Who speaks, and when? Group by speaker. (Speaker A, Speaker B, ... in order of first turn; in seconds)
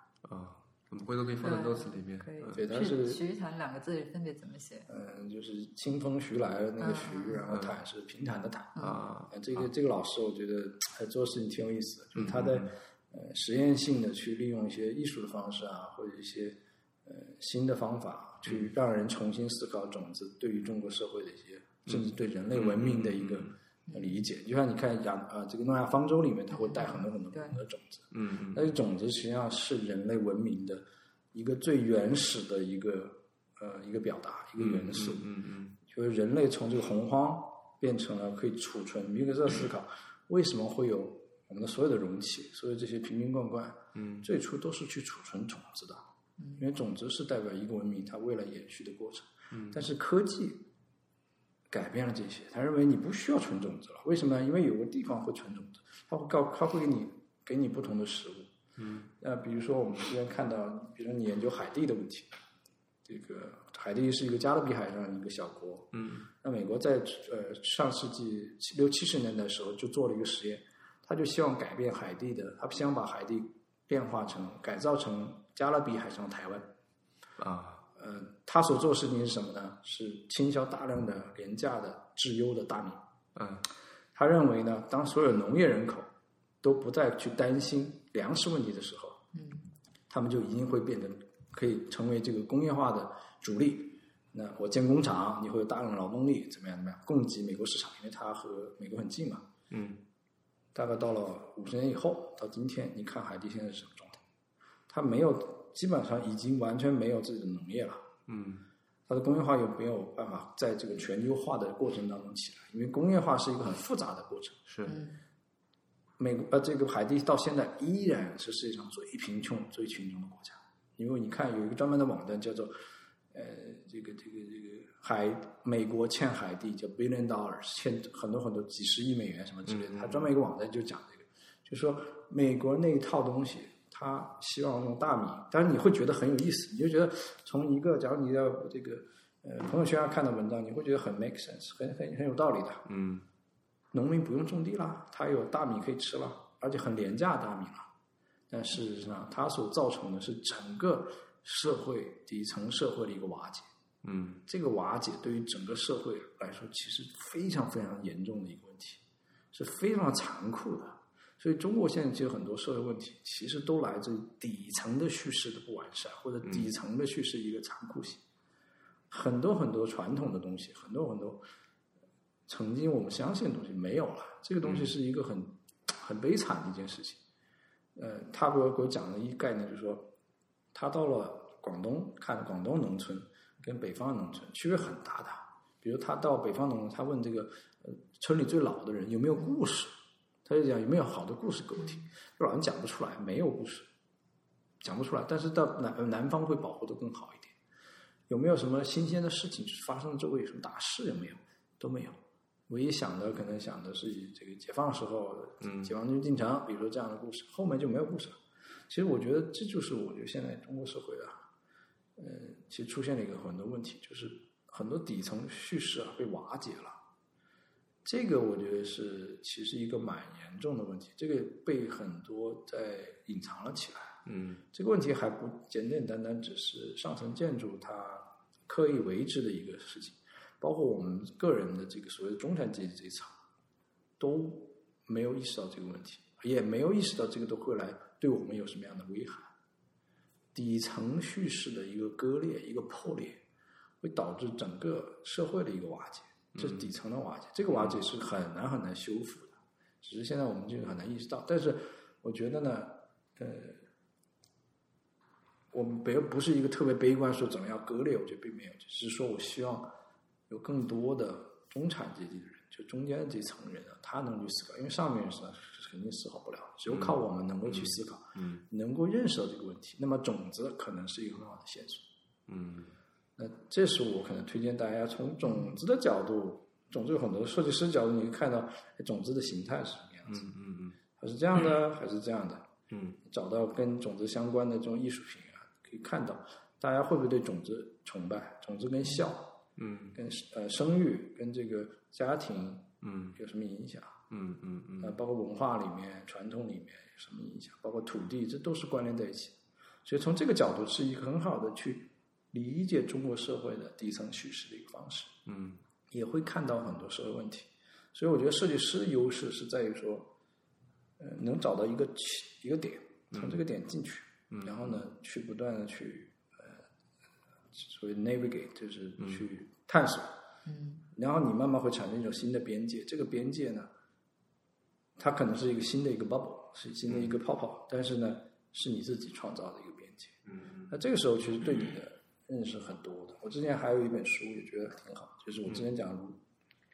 Speaker A: 0.2-2.6, 8.8-9.6, 12.2-12.7, 21.9-23.5, 28.1-28.7, 34.6-35.7, 43.9-44.3, 49.5-49.8, 58.8-59.1, 65.9-66.3, 77.4-77.8, 83.3-83.7, 99.7-100.0, 108.3-108.7, 114.7-115.0, 129.7-130.3, 142.8-143.3, 154.0-154.4, 174.6-174.9, 205.6-205.9, 224.3-224.6, 246.5-246.9, 247.7-248.0, 266.9-268.6, 272.5-272.9, 280.3-281.0, 282.9-283.2, 289.8-290.2, 293.0-293.4, 294.3-295.2, 305.4-305.8, 313.3-313.6, 314.5-314.9, 327.1-327.3
Speaker B: 1.4-4.9, 6.8-7.4, 26.5-27.6, 89.3-89.7, 114.9-115.2, 320.7-321.0
Speaker C: 2.5-3.2, 4.9-35.3, 35.8-46.1, 46.6-50.7, 51.7-58.5, 59.2-62.3, 63.1-76.7, 78.0-83.0, 84.2-86.1, 86.6-89.2, 90.1-99.5, 100.7-104.2, 104.9-108.0, 109.1-114.6, 116.2-122.7, 123.3-142.8, 143.9-147.9, 148.5-153.7, 154.4-159.0, 159.5-168.2, 169.1-171.4, 172.5-177.2, 177.9-180.1, 180.7-189.9, 190.4-193.9, 194.8-197.6, 198.3-202.2, 202.7-211.4, 212.2-217.0, 218.1-224.2, 224.7-233.3, 234.2-239.5, 240.5-243.4, 244.0-253.8, 255.7-259.9, 260.5-272.0, 273.4-280.5, 281.2-282.7, 283.3-289.6, 290.1-294.2, 295.0-305.4, 306.1-310.3, 311.2-316.8, 317.7-320.3, 321.1-323.9, 325.2-336.4